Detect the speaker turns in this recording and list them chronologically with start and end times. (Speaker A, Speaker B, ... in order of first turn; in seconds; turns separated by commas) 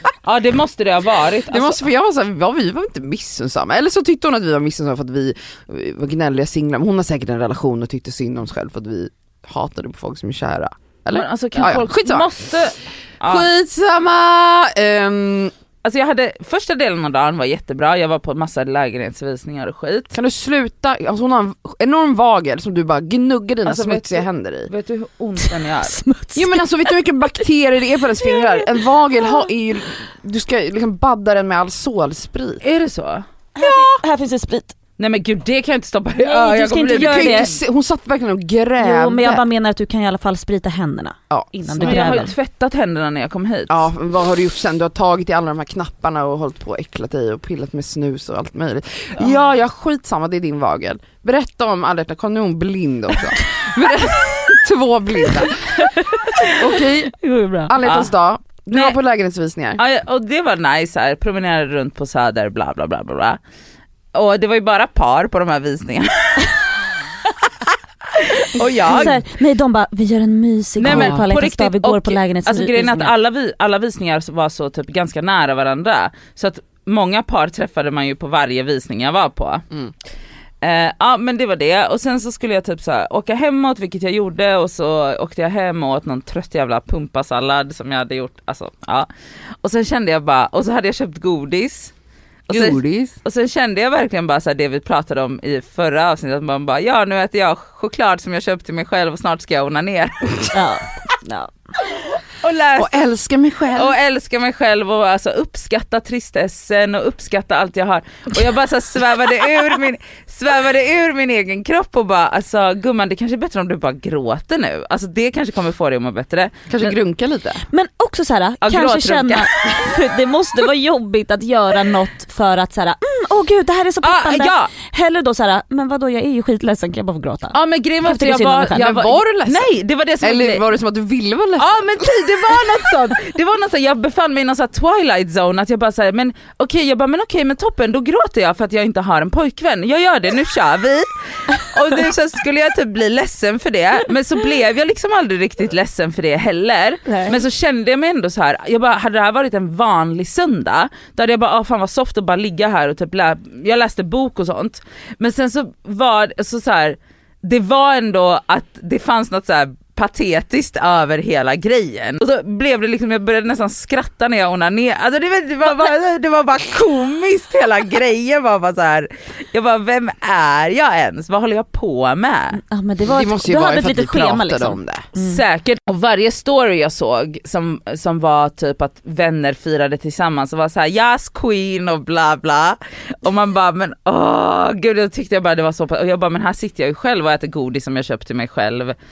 Speaker A: 0.2-1.8, Speaker B: 1.5-12.3, Speaker A: 11.1-13.4, Speaker B: 13.2-15.5, Speaker A: 15.8-20.1, Speaker B: 20.1-24.7, Speaker A: 23.6-26.0, Speaker C: 25.5-26.9, Speaker B: 26.3-32.6, Speaker C: 28.2-28.6, Speaker A: 32.6-33.2, Speaker C: 33.5-34.8, Speaker A: 35.0-37.5, Speaker C: 36.2-37.5, Speaker B: 36.9-39.4, Speaker C: 38.8-42.3, Speaker B: 41.3-42.1, Speaker A: 41.8-43.9, Speaker B: 43.7-55.8, Speaker C: 55.8-57.7, Speaker B: 56.5-57.1, Speaker B: 57.6-59.8, Speaker A: 57.8-58.1, Speaker A: 58.7-59.0, Speaker A: 59.8-63.4, Speaker A: 64.1-66.6, Speaker A: 68.1-69.2, Speaker C: 68.8-73.1, Speaker A: 70.8-79.6, Speaker B: 70.9-71.2, Speaker A: 80.6-89.1, Speaker A: 89.6-91.9, Speaker A: 92.5-100.5, Speaker B: 92.5-93.2, Speaker C: 100.5-101.5, Speaker A: 102.3-102.9, Speaker B: 102.8-103.9, Speaker A: 103.7-116.9, Speaker B: 116.7-117.6, Speaker C: 117.7-129.0, Speaker A: 118.6-119.9, Speaker A: 124.0-124.7, Speaker A: 127.5-130.6, Speaker B: 128.8-129.7, Speaker B: 130.2-132.2, Speaker A: 131.6-172.6, Speaker C: 147.1-147.3, Speaker C: 172.6-175.4, Speaker B: 173.1-175.1, Speaker A: 175.2-188.9